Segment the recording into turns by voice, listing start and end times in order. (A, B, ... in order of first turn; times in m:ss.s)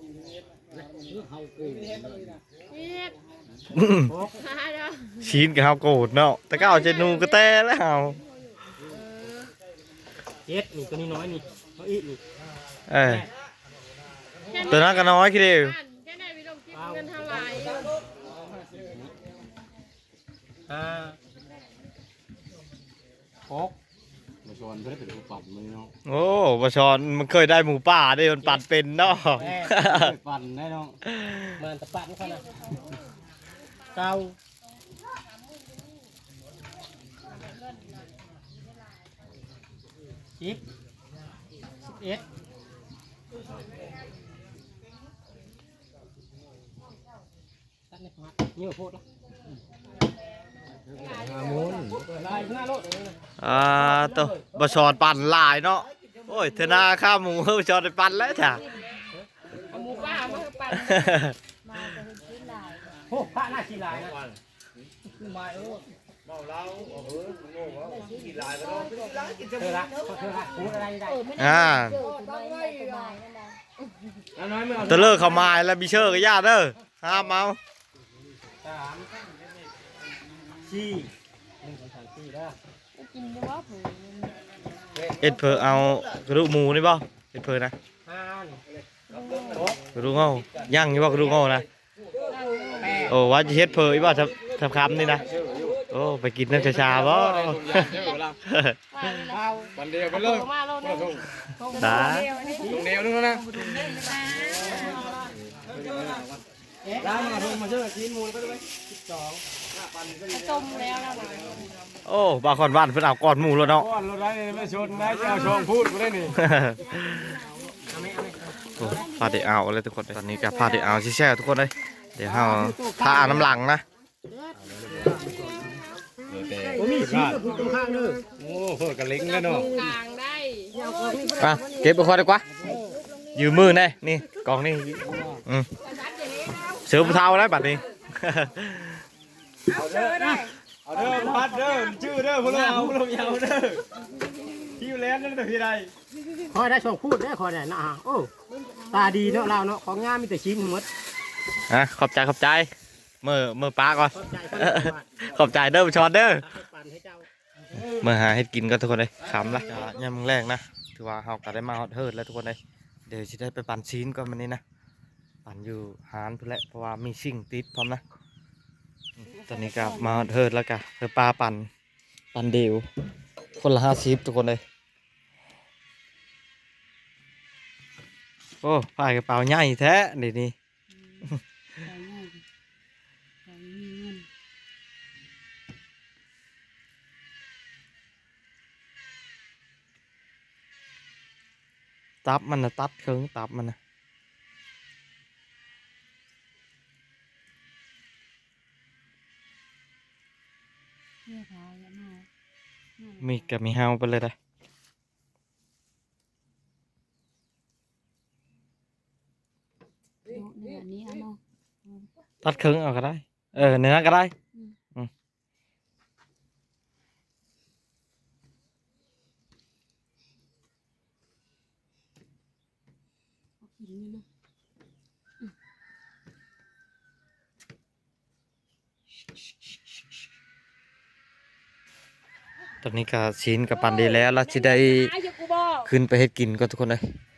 0:01.2-0:02.1 A
0:02.7-0:03.2 B
0:03.7-0:04.1 C
0:04.1-0:04.3 A
0:04.4-0:05.2 B
0:05.2-0:08.2 C
0:06.5-0:07.5 B
0:08.8-0:09.5 B
0:10.4-0:12.2 A
0:12.9-0:13.2 C
0:14.5-0:17.8 B
0:14.6-0:15.8 C
0:16.7-0:17.2 A
0:20.7-0:21.2 A
0:23.5-0:23.7 A
0:24.4-0:25.9 D
0:26.0-0:30.2 C
0:29.3-0:29.7 A
0:29.8-0:31.0 D
0:31.1-0:31.6 C
0:31.6-0:32.5 A
0:33.9-0:34.4 A
0:40.4-0:40.6 A
0:41.8-0:42.2 A
0:47.9-0:49.0 A
0:50.9-0:51.8 B
0:51.0-0:52.0 D
0:51.7-0:53.2 A
0:53.4-0:58.6 C
0:53.7-0:54.7 A
0:59.7-1:01.2 B
1:00.7-1:01.3 C
1:01.6-1:02.9 E
1:03.1-1:04.2 A
1:06.4-1:09.7 D
1:08.0-1:09.2 E
1:09.6-1:11.3 A
1:11.1-1:13.6 E
1:11.4-1:12.0 C
1:14.4-1:15.4 D
1:14.8-1:17.6 C
1:18.6-1:19.1 A
1:20.6-1:21.1 A
1:21.6-1:22.5 A
1:22.9-1:24.4 B
1:25.2-1:27.7 C
1:28.0-1:28.6 A
1:29.1-1:29.6 B
1:29.9-1:31.7 C
1:32.5-1:32.8 B
1:32.8-1:33.2 A
1:33.1-1:35.2 C
1:35.9-1:38.8 C
1:36.5-1:38.3 D
1:37.7-1:38.3 B
1:38.9-1:39.4 B
1:39.3-1:39.7 A
1:39.8-1:41.2 D
1:40.0-1:42.8 B
1:41.8-1:42.3 C
1:42.6-1:42.9 A
1:42.7-1:43.9 D
1:43.9-1:44.9 B
1:45.7-1:46.3 D
1:46.8-1:47.4 A
1:47.0-1:48.6 D
1:50.3-1:51.7 B
1:52.0-1:53.9 C
1:53.8-1:56.4 D
1:56.3-1:57.3 C
1:57.9-1:58.7 A
1:58.8-2:03.8 C
1:58.8-1:59.4 E
2:00.5-2:01.0 B
2:02.2-2:03.5 A
2:06.3-2:07.4 D
2:06.6-2:08.2 A
2:08.4-2:09.7 D
2:09.2-2:10.8 B
2:09.4-2:09.9 A
2:10.7-2:12.0 A
2:11.4-2:12.4 C
2:13.3-2:15.7 C
2:16.2-2:16.6 B
2:16.8-2:19.0 C
2:19.7-2:20.4 B
2:19.8-2:20.1 D
2:20.1-2:20.4 A
2:20.9-2:23.8 D
2:22.4-2:22.9 A
2:22.5-2:23.7 C
2:24.8-2:25.9 D
2:26.5-2:28.3 A
2:28.9-2:30.9 A
2:31.7-2:32.7 C
2:33.2-2:36.4 C
2:34.1-2:35.1 A
2:36.4-2:37.3 A
2:37.8-2:44.6 C
2:45.4-2:48.0 C
2:49.2-2:51.7 C
2:49.4-2:50.2 E
2:52.3-2:52.9 C
2:53.6-2:54.6 C
2:58.6-3:00.5 C
3:01.0-3:02.4 E
3:03.5-3:04.2 E
3:12.2-3:13.8 C
3:21.3-3:22.3 E
3:23.0-3:23.5 E
3:23.2-3:24.3 C
3:30.3-3:32.1 E
3:32.4-3:34.3 C
3:43.6-3:44.2 E
3:52.8-3:55.2 C
3:54.0-3:55.8 B
3:55.8-3:57.0 C